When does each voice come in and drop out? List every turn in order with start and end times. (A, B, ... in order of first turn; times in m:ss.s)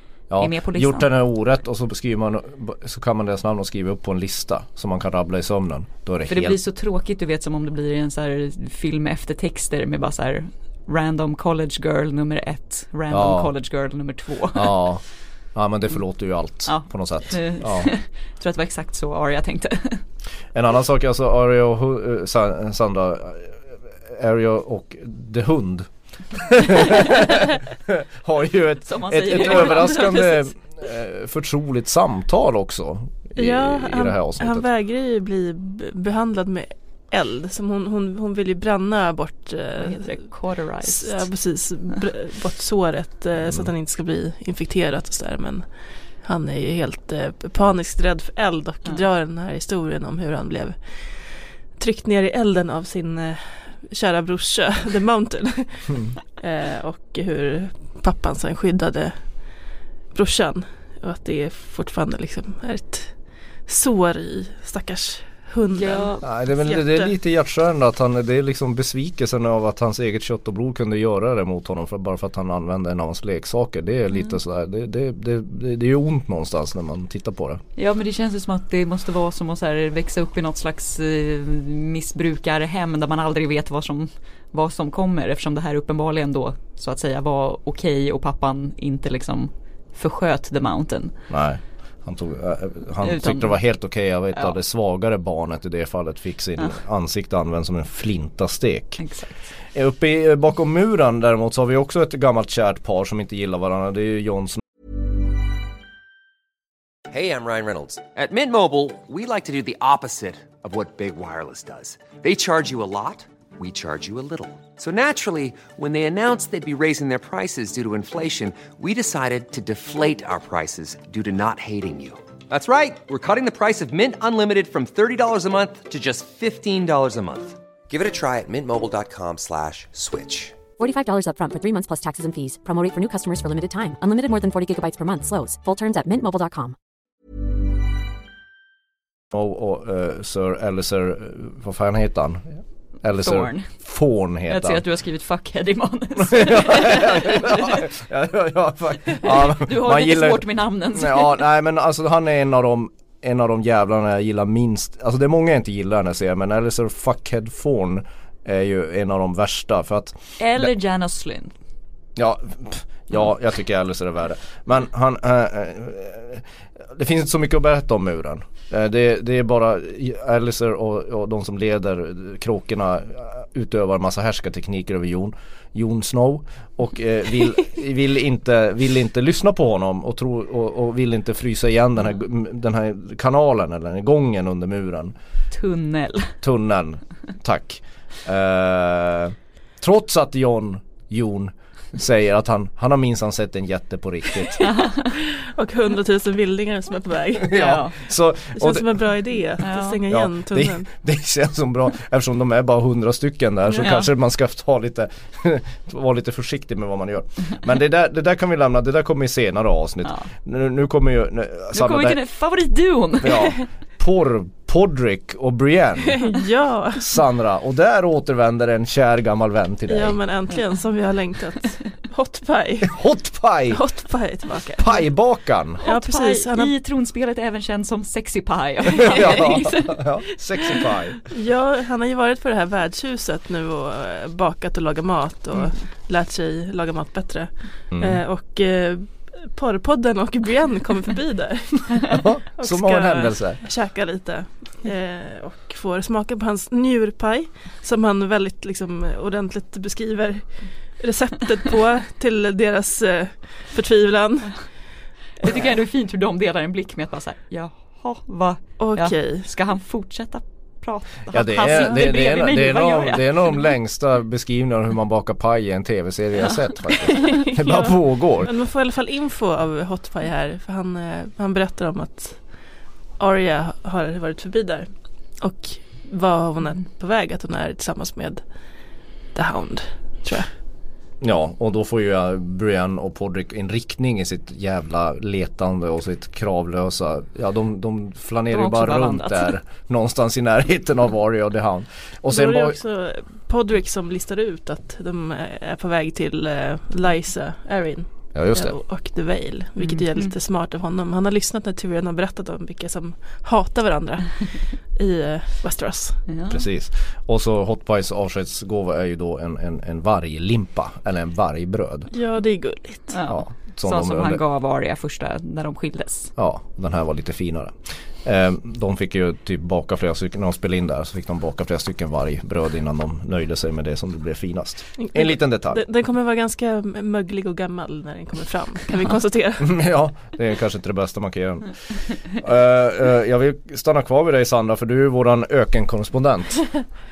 0:00.3-0:06.6 A
0:00.4-0:01.1 B
0:06.3-0:14.8 B
0:13.1-0:13.5 A
0:14.5-0:17.9 A
0:16.7-0:20.0 B
0:20.5-0:34.6 A
0:28.8-0:30.5 B
0:33.4-0:40.3 C
0:39.8-0:41.2 B
0:40.8-0:59.5 C
1:00.1-1:06.1 C
1:05.7-1:07.1 B
1:06.2-1:17.6 A
1:17.8-1:31.1 B
1:31.3-1:39.0 A
1:33.0-1:33.6 B
1:39.0-1:39.3 B
1:39.7-1:44.6 A
1:47.1-2:10.6 D
2:10.8-2:16.7 E
2:19.3-2:24.8 A
2:23.1-2:23.7 B
2:24.5-2:27.8 B
2:26.2-2:40.7 A
2:29.2-2:31.4 B
2:40.4-2:41.5 B
2:42.2-3:05.1 A
3:05.5-3:06.3 B
3:06.4-3:14.7 A
3:14.6-3:15.1 B
3:15.2-3:20.9 C
3:17.4-3:19.0 A
3:17.5-3:17.9 B
3:19.6-3:20.0 B
3:20.1-3:32.2 A
3:23.8-3:24.0 B
3:31.7-3:33.6 B
3:33.2-3:36.2 A
3:36.2-3:37.1 C
3:37.0-3:40.2 A
3:39.9-3:43.0 C
3:42.9-3:43.8 A
3:43.7-3:45.1 C
3:44.8-3:45.8 A
3:45.8-3:46.7 C
3:45.8-3:50.0 B
3:49.0-3:49.7 C
3:49.0-3:51.2 A
3:51.3-4:14.8 C
3:57.9-3:58.2 A
4:02.1-4:03.6 A
4:15.4-4:23.3 B
4:18.8-4:19.5 C
4:21.3-4:28.5 A
4:27.4-4:32.5 C
4:33.2-4:38.4 C
4:39.3-4:40.5 C
4:41.2-4:52.8 A
4:48.5-4:49.5 B
4:52.3-5:06.2 C
4:58.3-4:58.8 A
4:59.8-5:00.3 B
5:06.3-5:06.6 B
5:06.5-5:12.1 A
5:12.1-5:13.2 C
5:13.1-5:16.3 B
5:13.3-5:14.4 A
5:16.4-5:25.8 A
5:25.0-5:29.8 C
5:29.6-5:36.8 A